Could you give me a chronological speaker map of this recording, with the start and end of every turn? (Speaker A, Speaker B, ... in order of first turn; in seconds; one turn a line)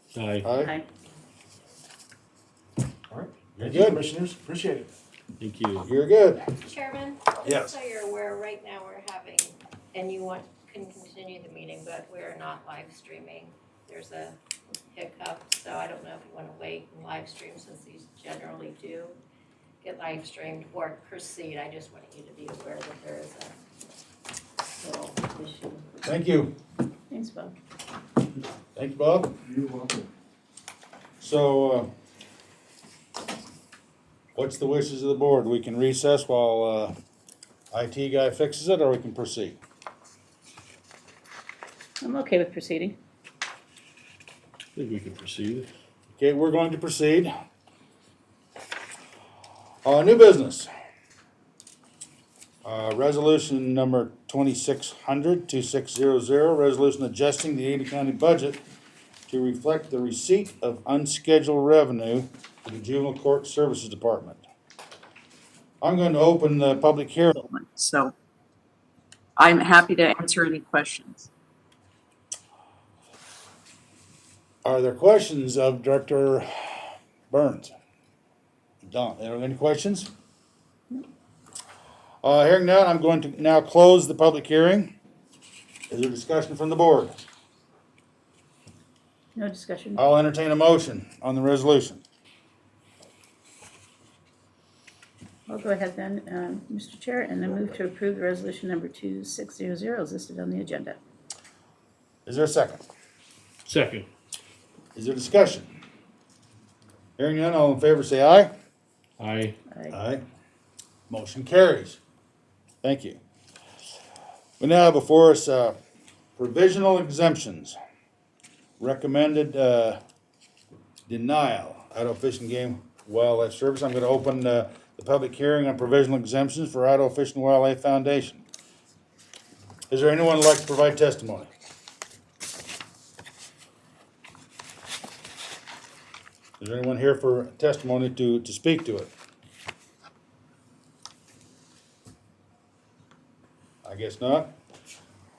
Speaker A: 0.2-0.5
Speaker B: 0.4-0.7
Speaker C: 0.6-0.8
Speaker D: 3.1-4.9
Speaker B: 3.6-4.0
Speaker A: 5.4-5.9
Speaker B: 5.8-6.5
Speaker E: 6.4-14.4
Speaker B: 7.4-7.8
Speaker E: 14.9-19.1
Speaker E: 19.8-23.6
Speaker E: 24.8-25.9
Speaker B: 26.1-26.6
Speaker C: 27.1-27.6
Speaker B: 28.8-29.4
Speaker D: 29.5-30.0
Speaker B: 31.2-31.9
Speaker B: 34.4-37.0
Speaker B: 37.7-39.6
Speaker C: 42.0-43.0
Speaker A: 44.8-45.7
Speaker B: 46.1-47.3
Speaker B: 49.9-50.7
Speaker B: 52.6-58.6
Speaker B: 59.3-64.4
Speaker B: 65.8-67.4
Speaker F: 67.4-68.1
Speaker F: 69.4-71.3
Speaker B: 74.7-76.5
Speaker B: 77.3-77.7
Speaker B: 78.8-80.1
Speaker B: 82.2-84.9
Speaker B: 85.9-87.2
Speaker C: 89.4-90.0
Speaker B: 90.0-92.0
Speaker C: 95.5-101.0
Speaker B: 102.3-102.8
Speaker A: 103.7-104.1
Speaker B: 105.0-105.7
Speaker B: 107.2-108.5
Speaker A: 109.2-109.6
Speaker B: 109.9-110.2
Speaker B: 111.1-112.0
Speaker B: 112.8-113.2
Speaker B: 114.6-115.8
Speaker B: 116.4-117.8
Speaker B: 118.8-120.0
Speaker B: 121.1-128.4
Speaker B: 129.9-131.5
Speaker B: 136.6-139.1
Speaker B: 143.8-144.5